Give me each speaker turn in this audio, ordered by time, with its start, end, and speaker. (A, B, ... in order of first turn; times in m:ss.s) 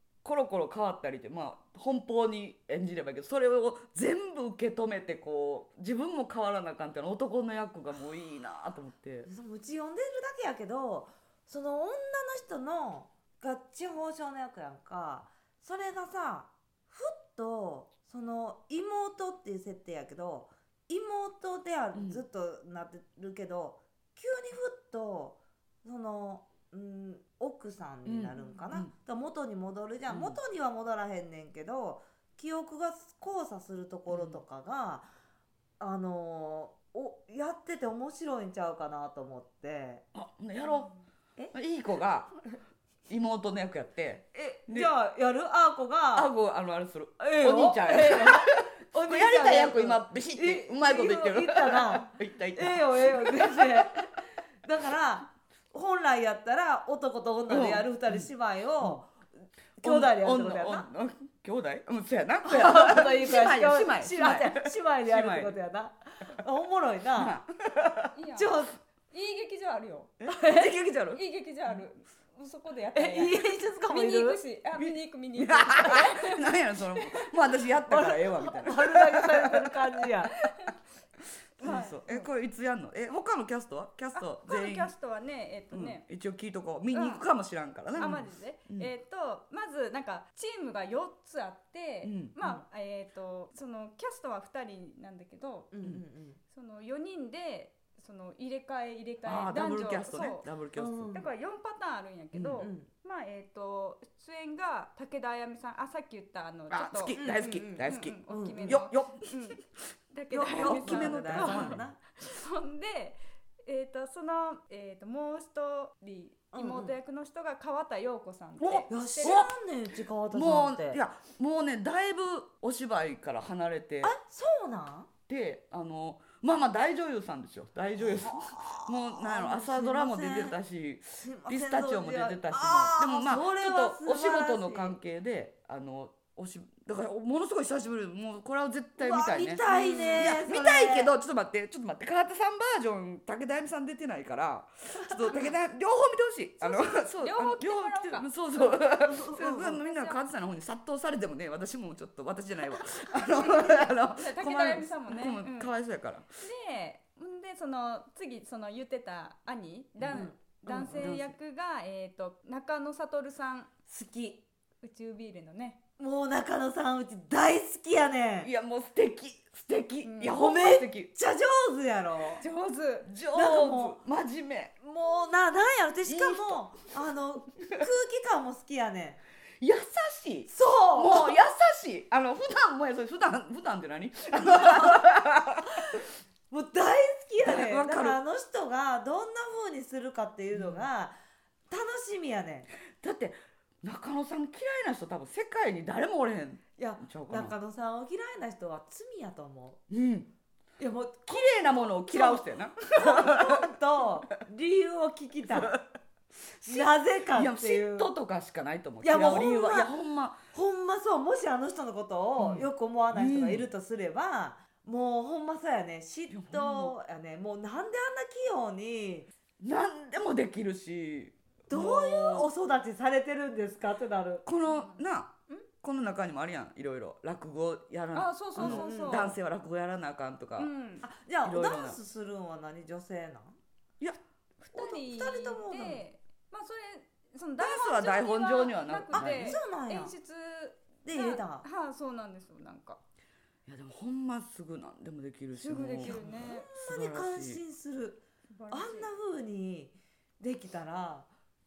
0:00.2-0:09.3 A
0:09.3-0:35.1 B
0:21.9-0:22.2 A
0:28.0-0:28.9 A
0:30.1-0:30.4 A
0:34.1-0:34.4 A
0:35.8-0:40.0 B
0:40.1-0:40.9 A
0:41.5-0:42.3 A
0:43.1-0:44.9 A
0:44.3-0:46.3 B
0:46.1-0:53.9 A
0:47.2-0:59.1 B
0:57.5-0:58.3 A
0:59.8-1:00.9 B
0:59.8-1:05.6 A
1:02.4-1:07.4 B
1:07.2-1:08.1 A
1:08.1-1:10.1 C
1:08.3-1:08.8 B
1:10.2-1:11.2 A
1:10.4-1:10.7 B
1:11.1-1:16.5 C
1:12.9-1:14.4 B
1:14.7-1:19.7 A
1:17.8-1:20.3 B
1:20.4-1:20.7 C
1:21.6-1:22.3 C
1:21.6-1:24.9 A
1:24.1-1:26.0 C
1:25.7-1:28.9 A
1:26.9-1:27.2 C
1:27.9-1:35.7 C
1:32.0-1:32.3 A
1:32.4-1:32.7 B
1:35.7-1:36.4 B
1:36.5-1:40.5 C
1:39.2-1:41.2 A
1:40.8-1:41.2 B
1:41.1-1:47.2 C
1:42.3-1:42.7 A
1:42.6-1:42.9 B
1:46.7-1:49.5 A
1:47.1-1:48.8 B
1:47.8-1:59.4 C
1:50.3-1:52.0 B
1:50.4-1:51.8 A
1:56.5-1:57.0 B
1:58.6-1:59.6 A
1:58.9-2:01.0 B
2:00.3-2:04.1 A
2:04.0-2:05.1 B
2:05.3-2:36.3 A
2:08.0-2:10.5 B
2:11.2-2:15.0 B
2:19.0-2:21.1 B
2:19.7-2:20.4 C
2:25.1-2:25.3 B
2:26.6-2:28.3 C
2:29.0-2:29.8 B
2:29.4-2:30.2 C
2:33.4-2:35.7 C
2:36.4-2:43.7 C
2:40.0-2:41.3 A
2:40.1-2:41.2 B
2:43.9-2:44.4 B
2:44.8-2:45.8 C
2:46.0-2:48.5 B
2:48.4-2:51.1 A
2:50.0-2:50.4 C
2:50.3-2:52.4 B
2:52.4-2:53.1 C
2:53.0-2:54.7 A
2:53.3-2:54.0 B
2:54.8-2:59.2 B
2:56.0-2:56.6 A
2:59.6-3:05.9 A
3:00.5-3:01.4 B
3:06.5-3:11.2 B
3:07.4-3:08.2 A
3:10.5-3:10.9 A
3:11.7-3:12.7 B
3:13.0-3:17.6 A
3:16.8-3:19.8 B
3:19.9-3:20.3 A
3:20.8-3:25.7 B
3:21.3-3:23.7 A
3:25.5-3:25.8 A
3:26.6-3:30.4 A
3:26.7-3:28.1 B
3:29.0-3:29.9 B
3:30.5-3:39.3 B
3:32.4-3:33.7 A
3:36.3-3:36.9 A
3:39.6-3:42.5 A
3:41.7-3:44.5 B
3:44.4-3:50.7 A
3:44.6-3:45.7 C
3:48.1-3:49.3 C
3:48.6-3:49.4 B
3:50.6-3:51.1 C
3:51.0-3:53.6 B
3:51.4-3:52.0 A
3:54.6-4:03.0 C
3:54.7-3:56.0 B
3:57.6-3:59.6 A
3:59.1-4:00.1 B
4:01.0-4:01.7 B
4:03.6-4:07.6 A
4:05.5-4:06.7 C
4:06.1-4:11.3 B
4:08.5-4:09.1 C